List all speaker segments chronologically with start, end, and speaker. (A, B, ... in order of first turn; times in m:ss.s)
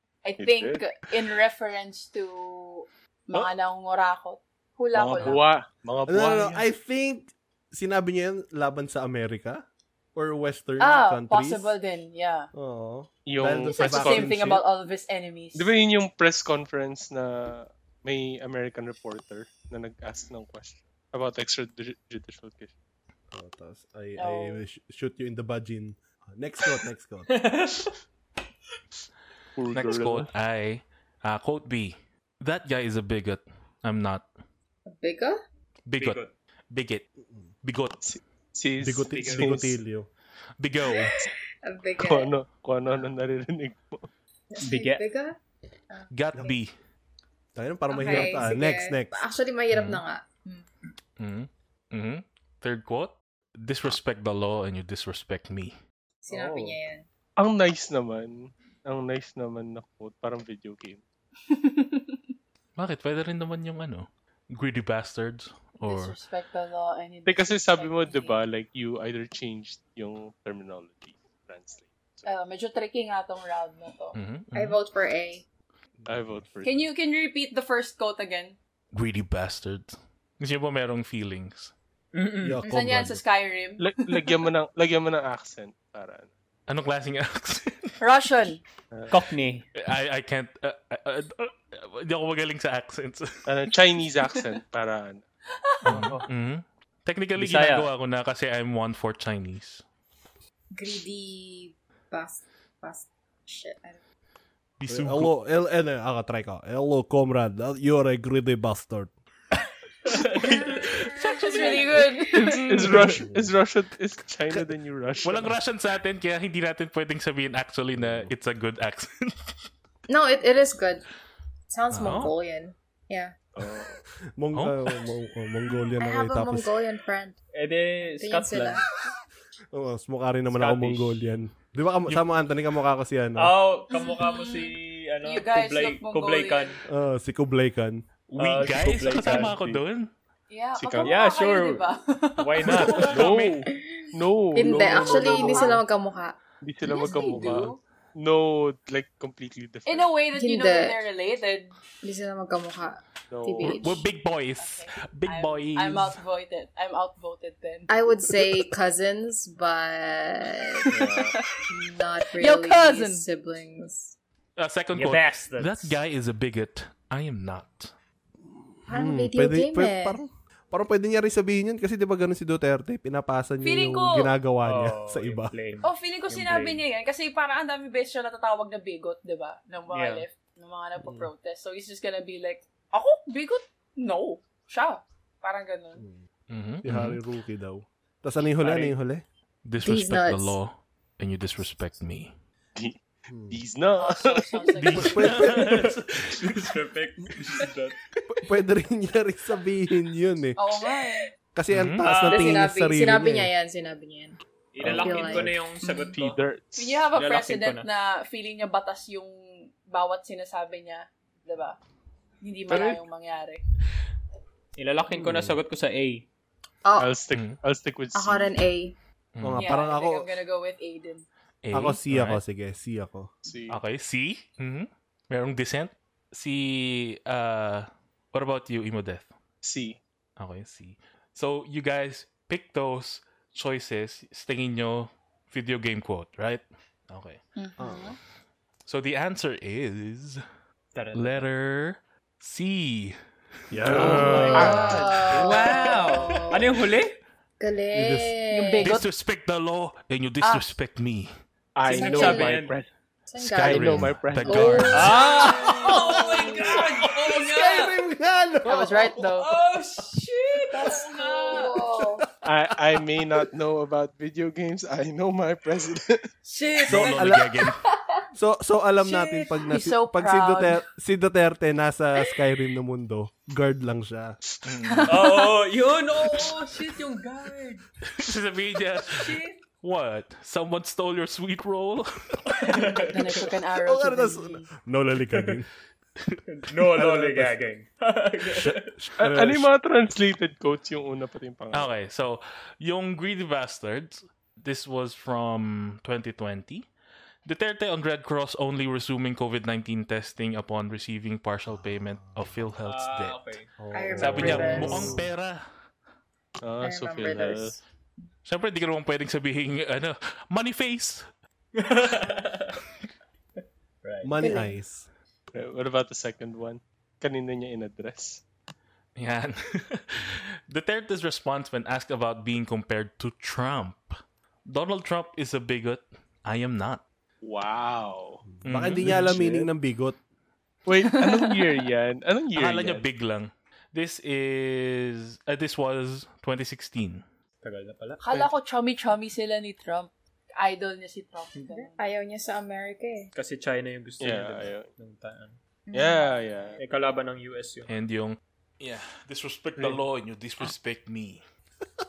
0:00.2-0:05.5 A
0:00.4-0:00.8 B
0:04.9-0:06.6 B
0:06.1-0:09.6 C
0:10.1-0:11.7 C
0:10.8-0:12.5 A
0:12.5-0:14.6 C
0:13.2-0:14.4 B
0:13.7-0:15.7 A
0:15.5-0:22.7 B
0:23.3-0:27.4 C
0:24.2-0:24.6 A
0:27.3-0:27.9 D
0:29.6-0:30.3 B
0:29.7-0:34.3 E
0:34.9-0:35.4 F
0:35.9-0:37.0 E
0:36.0-0:36.3 D
0:37.6-0:38.1 E
0:38.0-0:39.8 B
0:38.8-0:40.1 C
0:39.1-0:39.5 D
0:40.6-0:41.1 E
0:40.9-0:42.3 F
0:42.0-0:44.0 B
0:44.5-0:45.4 F
0:44.6-0:45.0 D
0:45.9-0:46.6 F
0:46.1-0:46.7 E
0:47.6-0:49.2 C
0:47.9-0:50.6 F
0:49.7-0:50.0 E
0:51.2-0:55.8 E
0:56.2-0:57.0 F
0:57.4-1:01.0 B
1:01.5-1:02.2 A
1:02.8-1:06.2 E
1:05.8-1:08.4 A
1:07.2-1:12.3 B
1:12.2-1:14.2 A
1:14.1-1:14.8 E
1:14.5-1:15.4 F
1:16.1-1:16.8 B
1:16.6-1:18.6 A
1:18.9-1:21.7 E
1:22.1-1:22.6 D
1:22.4-1:23.2 C
1:22.6-1:23.9 A
1:23.8-1:26.3 B
1:26.7-1:28.0 E
1:28.0-1:28.6 A
1:28.9-1:29.2 B
1:29.1-1:29.6 D
1:29.8-1:33.4 E
1:33.4-1:35.2 B
1:35.8-1:39.8 E
1:37.4-1:37.9 D
1:40.7-1:44.0 F
1:44.8-1:45.3 E
1:44.9-1:49.1 C
1:50.1-1:50.8 D
1:50.4-1:50.7 B
1:50.8-1:52.1 F
1:51.2-1:53.1 E
1:51.3-1:52.6 A
1:52.4-1:55.5 B
1:53.0-1:53.5 C
1:55.2-1:59.5 E
1:57.9-1:58.3 C
2:00.1-2:01.0 F
2:01.7-2:03.5 F
2:01.9-2:02.3 E
2:03.6-2:04.0 B
2:04.4-2:06.7 C
2:06.0-2:07.4 F
2:07.5-2:08.8 D
2:08.2-2:08.9 F
2:09.7-2:13.5 C
2:10.5-2:11.2 D
2:13.4-2:16.8 D
2:13.9-2:16.8 A
2:16.9-2:18.0 C
2:18.3-2:20.1 E
2:18.4-2:19.6 D
2:19.2-2:19.8 B
2:20.5-2:23.1 A
2:20.8-2:21.2 B
2:21.0-2:21.9 D
2:22.4-2:23.2 D
2:22.9-2:23.6 E
2:23.0-2:25.8 B
2:23.7-2:26.4 F
2:24.6-2:25.8 A
2:26.6-2:30.1 B
2:26.8-2:27.8 A
2:27.0-2:27.4 F
2:29.8-2:31.8 A
2:30.4-2:31.0 F
2:32.0-2:34.0 F
2:33.3-2:33.8 B
2:33.6-2:36.2 E
2:34.6-2:37.9 A
2:37.9-2:40.9 F
2:40.9-2:41.4 B
2:41.0-2:41.6 A
2:41.7-2:44.1 F
2:42.3-2:43.2 A
2:44.6-2:47.9 E
2:44.9-2:46.0 D
2:48.9-2:55.5 C
2:48.9-2:50.2 F
2:53.6-2:54.3 A
2:54.6-2:56.8 D
2:55.8-3:06.0 A
2:59.9-3:00.2 D
3:01.0-3:01.3 C
3:06.5-3:07.2 E
3:06.8-3:09.2 C
3:08.6-3:08.9 D
3:09.6-3:12.3 E
3:09.8-3:10.6 F
3:13.3-3:13.6 C
3:13.5-3:14.7 B
3:14.0-3:15.6 A
3:14.8-3:16.7 E
3:14.9-3:15.8 C
3:15.5-3:18.0 D
3:18.3-3:20.6 C
3:20.6-3:21.3 A
3:21.5-3:23.5 C
3:21.7-3:22.1 E
3:22.0-3:22.6 D
3:22.2-3:26.1 F
3:24.7-3:26.4 D
3:24.8-3:25.5 B
3:26.1-3:27.0 B
3:26.8-3:31.8 A
3:27.1-3:27.9 D
3:32.4-3:33.6 A
3:32.7-3:33.0 B
3:34.8-3:36.2 D
3:35.2-3:35.6 C
3:36.8-3:37.1 F
3:37.0-3:38.6 B
3:38.1-3:38.9 F
3:39.4-3:39.7 E
3:39.4-3:40.3 C
3:39.6-3:41.2 A
3:41.6-3:42.4 E
3:41.7-3:43.3 C
3:43.4-3:43.8 B
3:43.7-3:49.3 E
3:49.6-3:50.0 B
3:50.4-3:57.4 E
3:57.6-3:58.2 A
3:57.8-3:58.2 C
3:58.8-4:00.4 E
4:00.9-4:01.4 D
4:01.1-4:03.2 E
4:03.7-4:05.0 C
4:03.8-4:05.5 B
4:03.9-4:04.9 E
4:04.2-4:07.2 D
4:04.2-4:06.7 F
4:07.6-4:09.0 F
4:07.9-4:08.3 C
4:08.5-4:09.1 A
4:08.8-4:11.3 E
4:10.4-4:10.7 A
4:11.8-4:12.9 B
4:11.8-4:12.7 D
4:11.9-4:12.6 F
4:13.3-4:15.5 F
4:13.4-4:15.1 E
4:13.6-4:15.0 B
4:14.9-4:18.0 D
4:15.0-4:19.3 C
4:15.3-4:16.7 A
4:18.6-4:19.6 A
4:19.4-4:21.7 D
4:20.5-4:21.7 A
4:21.2-4:22.2 F
4:22.4-4:26.3 B
4:22.7-4:23.4 C
4:26.5-4:26.9 D
4:26.6-4:27.2 A
4:26.8-4:27.8 E
4:26.9-4:27.5 C
4:28.3-4:34.4 C
4:29.0-4:30.8 A
4:34.6-4:35.2 E
4:34.9-4:35.5 A
4:35.1-4:37.8 D
4:38.1-4:42.1 E
4:39.1-4:39.6 A
4:42.5-4:43.4 D
4:43.0-4:44.7 A
4:43.8-4:45.7 C
4:46.5-4:48.9 D
4:46.9-4:47.5 C
4:48.5-4:49.7 C
4:49.2-4:51.9 B
4:51.7-4:56.9 E
4:57.4-5:03.4 E
5:01.7-5:02.7 C
5:02.8-5:03.7 D
5:03.8-5:05.3 C
5:03.9-5:05.2 F
5:04.2-5:05.6 E
5:06.6-5:07.8 B
5:06.8-5:07.8 F
5:08.4-5:11.3 E
5:11.7-5:12.8 D
5:14.0-5:14.3 D
5:14.2-5:15.1 C
5:14.4-5:14.8 F
5:15.5-5:18.4 B
5:19.2-5:24.1 E
5:24.6-5:27.0 E
5:27.4-5:28.4 B
5:28.6-5:30.2 C
5:28.6-5:29.4 E
5:29.0-5:29.7 B
5:30.8-5:33.0 B
5:31.0-5:31.7 A
5:32.5-5:37.2 E
5:37.6-5:38.2 D
5:38.2-5:42.0 A
5:41.7-5:43.3 F
5:43.3-5:45.6 D
5:44.2-5:44.9 B
5:45.9-5:46.4 F
5:45.9-5:46.8 B
5:46.8-5:47.9 D
5:47.9-5:51.4 E
5:49.8-5:50.0 B